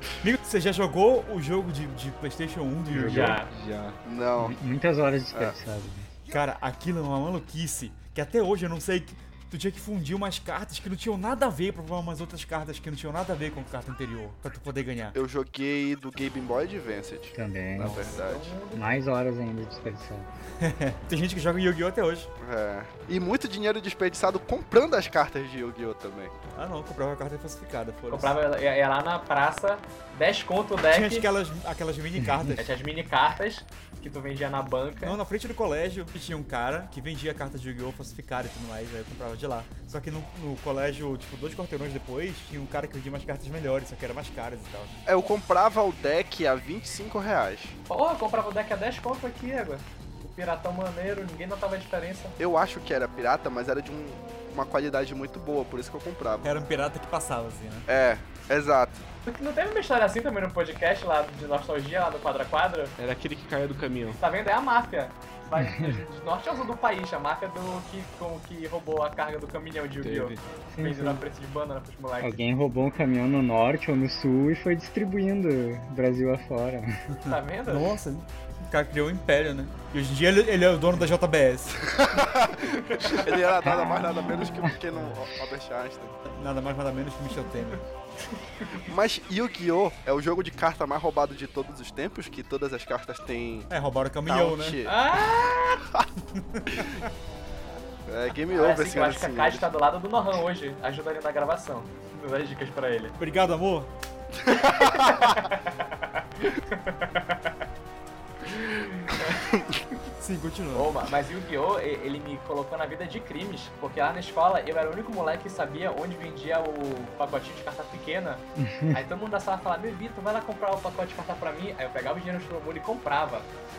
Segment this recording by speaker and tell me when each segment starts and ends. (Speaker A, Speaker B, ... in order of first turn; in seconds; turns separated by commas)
Speaker A: 0.2-3.4, Speaker B: 2.9-3.4, Speaker C: 3.1-3.5, Speaker D: 3.4-4.0, Speaker E: 4.0-4.5, Speaker B: 4.4-6.1, Speaker A: 6.3-15.2, Speaker E: 15.1-18.5, Speaker B: 17.3-18.2, Speaker C: 17.8-18.8, Speaker B: 18.7-20.3, Speaker A: 20.6-22.3, Speaker E: 22.4-26.3, Speaker A: 26.5-28.3, Speaker C: 28.1-31.3, Speaker A: 30.9-32.7, Speaker C: 32.6-35.2, Speaker A: 35.0-45.0, Speaker E: 45.0-47.8, Speaker C: 47.9-52.4, Speaker E: 52.4-56.5, Speaker A: 56.4-57.9, Speaker E: 57.9-59.0, Speaker C: 59.2-62.9, Speaker D: 63.0-64.2, Speaker C: 64.2-72.4, Speaker B: 65.6-66.0, Speaker D: 70.0-70.4, Speaker B: 70.7-71.2, Speaker B: 72.2-77.0, Speaker A: 77.2-81.9, Speaker C: 77.2-77.9, Speaker E: 81.9-86.2, Speaker C: 82.6-83.3, Speaker B: 83.6-84.7, Speaker A: 86.2-87.8, Speaker C: 88.3-88.8, Speaker E: 88.9-93.7, Speaker A: 93.7-94.8, Speaker E: 94.3-95.0, Speaker C: 94.8-95.8, Speaker A: 96.4-96.9, Speaker E: 98.1-99.7, Speaker C: 98.5-103.1, Speaker A: 103.2-103.9, Speaker E: 104.5-105.2, Speaker C: 104.7-107.5, Speaker C: 108.5-109.5, Speaker A: 110.2-111.1, Speaker C: 110.7-123.5, Speaker B: 118.6-119.0